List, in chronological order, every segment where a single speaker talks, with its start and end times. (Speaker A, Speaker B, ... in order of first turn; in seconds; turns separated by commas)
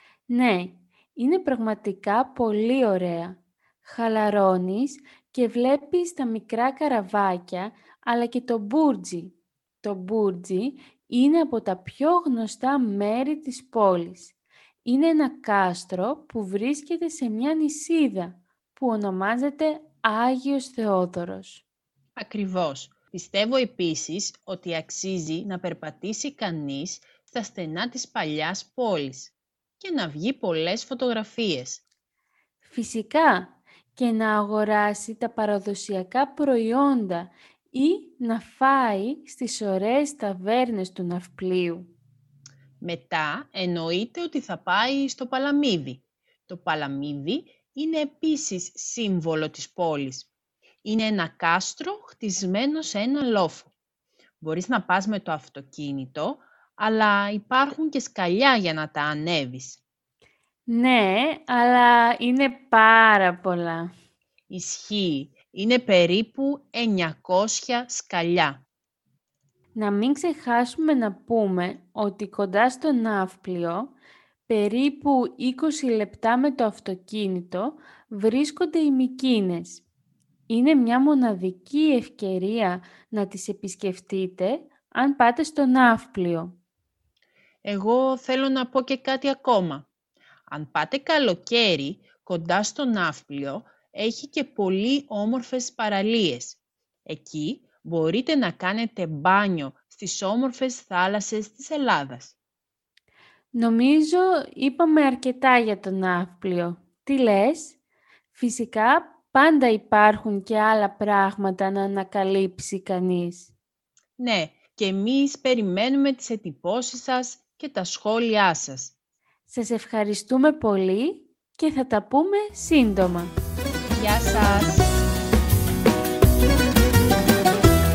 Speaker A: 0.3-14.3, Speaker A: 14.8-21.6, Speaker B: 22.2-31.8, Speaker A: 32.6-41.9, Speaker B: 42.8-50.3, Speaker B: 50.8-53.7, Speaker B: 54.4-59.8, Speaker A: 60.7-63.9, Speaker B: 64.5-68.6, Speaker A: 69.8-74.0, Speaker A: 74.5-79.8, Speaker A: 80.5-86.6, Speaker B: 87.7-89.9, Speaker B: 90.5-102.4, Speaker A: 103.5-107.8, Speaker A: 108.3-113.5, Speaker B: 114.2-118.9, Speaker A: 119.5-123.3, Speaker B: 123.9-124.9